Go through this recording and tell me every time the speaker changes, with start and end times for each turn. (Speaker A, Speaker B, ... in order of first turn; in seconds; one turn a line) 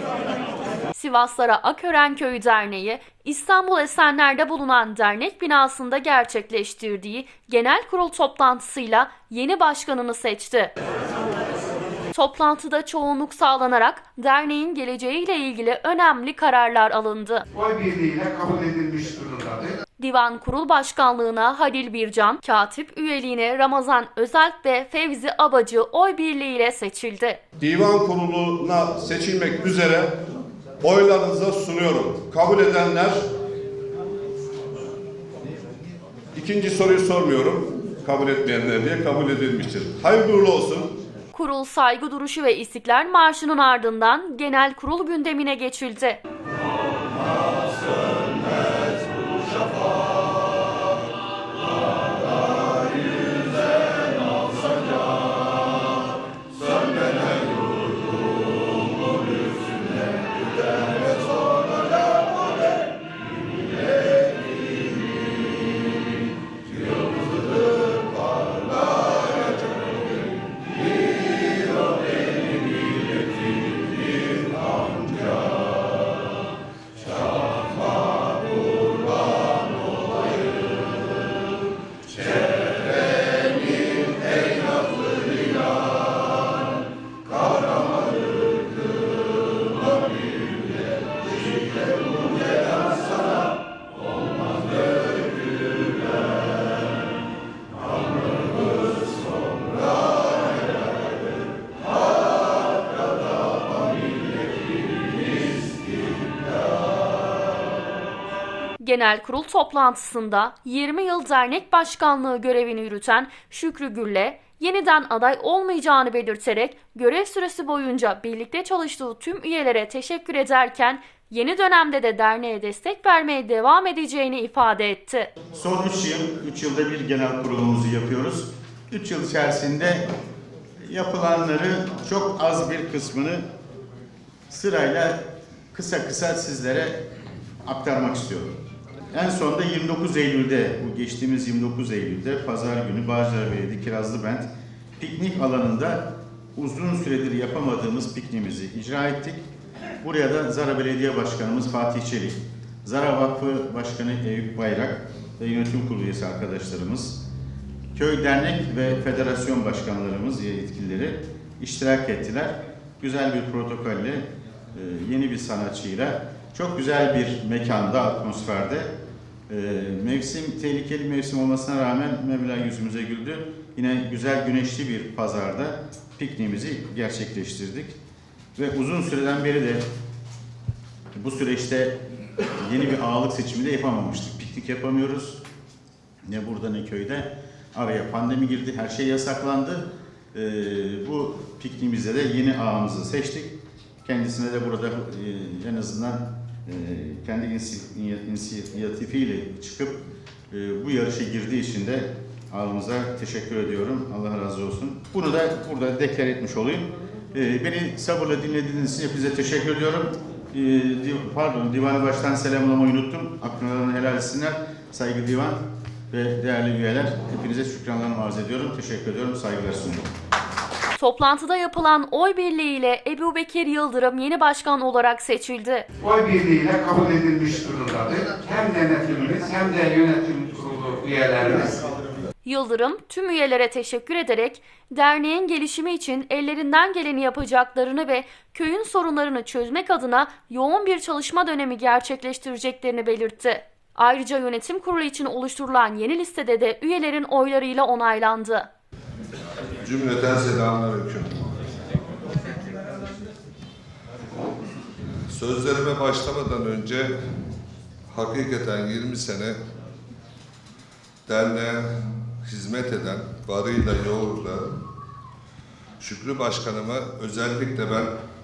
Speaker A: 0.9-10.7
Speaker A: 12.1-17.4
Speaker B: 17.5-19.8
Speaker A: 20.0-27.4
Speaker C: 27.6-30.2
Speaker C: 30.8-33.3
Speaker C: 36.3-41.0
Speaker A: 41.3-46.2
Speaker A: 108.8-125.3
Speaker D: 125.5-130.1
Speaker D: 130.8-133.4
Speaker D: 134.5-135.2
Speaker D: 135.7-137.0
Speaker D: 137.6-138.5
Speaker D: 139.1-144.5
Speaker D: 145.0-149.4
Speaker D: 150.0-157.2
Speaker D: 157.9-168.9
Speaker D: 169.5-177.9
Speaker D: 178.6-179.8
Speaker D: 181.1-182.0
Speaker D: 182.6-185.4
Speaker D: 186.2-200.0
Speaker D: 200.5-215.6
Speaker D: 216.1-220.1
Speaker A: 221.0-225.9
Speaker B: 226.0-231.8
Speaker A: 232.4-248.7
Speaker E: 249.8-251.3
Speaker E: 255.3-257.1
Speaker E: 258.1-259.6
Speaker E: 261.3-261.9
Speaker E: 262.4-264.7
Speaker E: 266.0-268.1